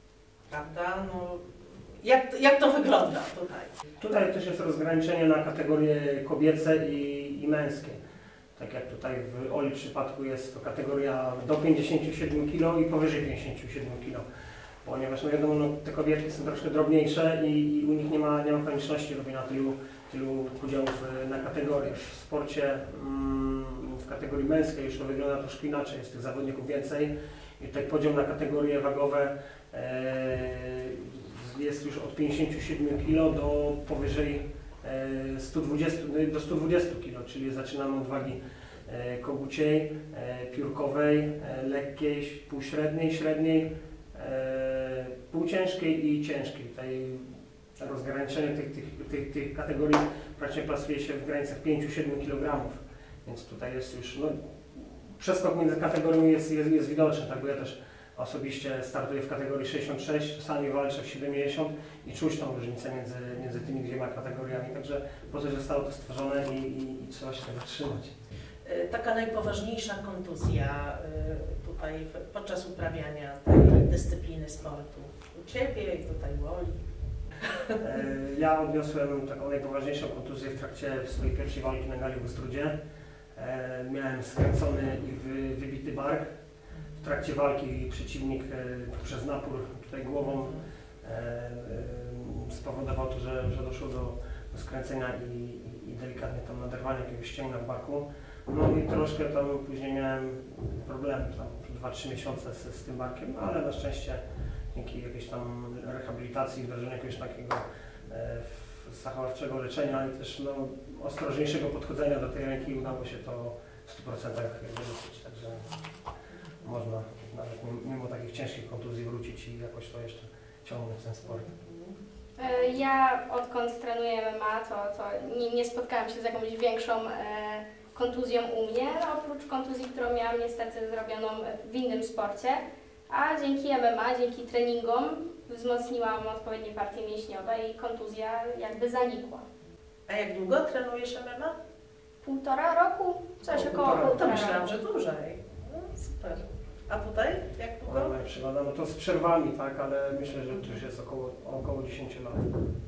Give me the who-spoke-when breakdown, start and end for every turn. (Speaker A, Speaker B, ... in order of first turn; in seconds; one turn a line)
Speaker A: 0.5-3.7
Speaker B: 4.0-8.0
Speaker B: 8.6-14.3
Speaker B: 14.8-68.1
Speaker A: 68.6-76.8
Speaker A: 77.4-77.8
Speaker B: 77.8-82.8
Speaker B: 83.4-86.3
Speaker B: 87.0-115.8
Speaker B: 116.6-121.5
Speaker A: 121.3-122.0
Speaker C: 122.4-139.5
Speaker A: 140.1-141.6
Speaker C: 142.2-144.8
Speaker B: 143.5-144.3
Speaker A: 143.8-148.2
Speaker B: 147.9-152.6